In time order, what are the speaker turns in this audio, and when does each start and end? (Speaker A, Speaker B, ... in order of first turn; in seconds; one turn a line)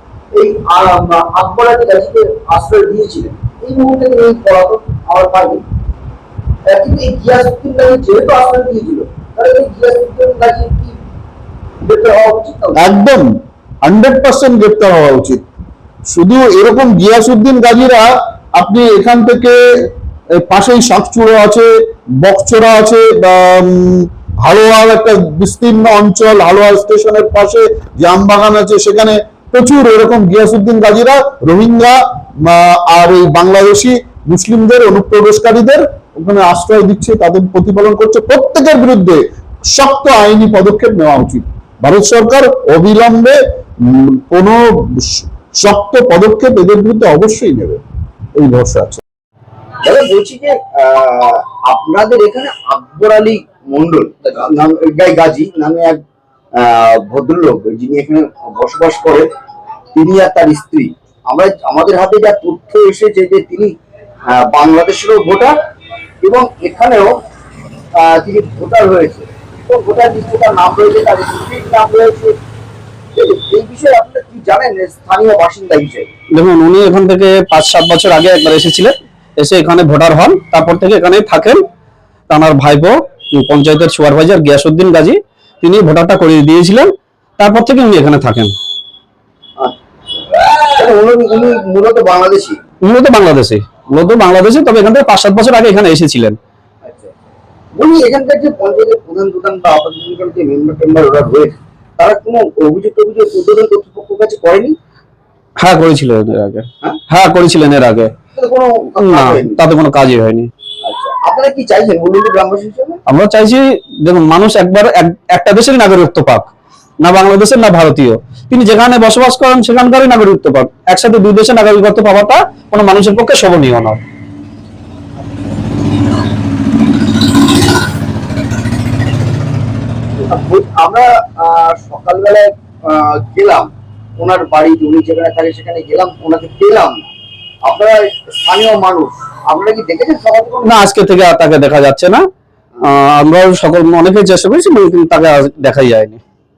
Speaker A: 0.3-5.6
Speaker A: 6.7-10.9
Speaker A: 11.8-12.8
Speaker B: 12.8-13.3
Speaker B: 13.8-15.4
Speaker B: 16.1-47.8
Speaker B: 48.4-49.0
Speaker A: 49.8-56.0
Speaker A: 56.5-59.3
Speaker A: 59.9-63.7
Speaker A: 64.3-65.5
Speaker A: 66.2-67.2
Speaker A: 68.0-72.3
Speaker A: 73.1-76.1
Speaker C: 76.3-81.6
Speaker C: 82.3-88.5
Speaker A: 89.6-92.6
Speaker C: 92.8-96.4
Speaker A: 96.8-97.1
Speaker A: 97.7-104.8
Speaker C: 105.6-108.1
Speaker A: 108.3-109.6
Speaker C: 109.0-110.5
Speaker A: 110.8-113.0
Speaker C: 113.0-124.0
Speaker A: 130.3-137.1
Speaker A: 137.6-140.8
Speaker C: 140.6-142.2
Speaker C: 142.8-146.2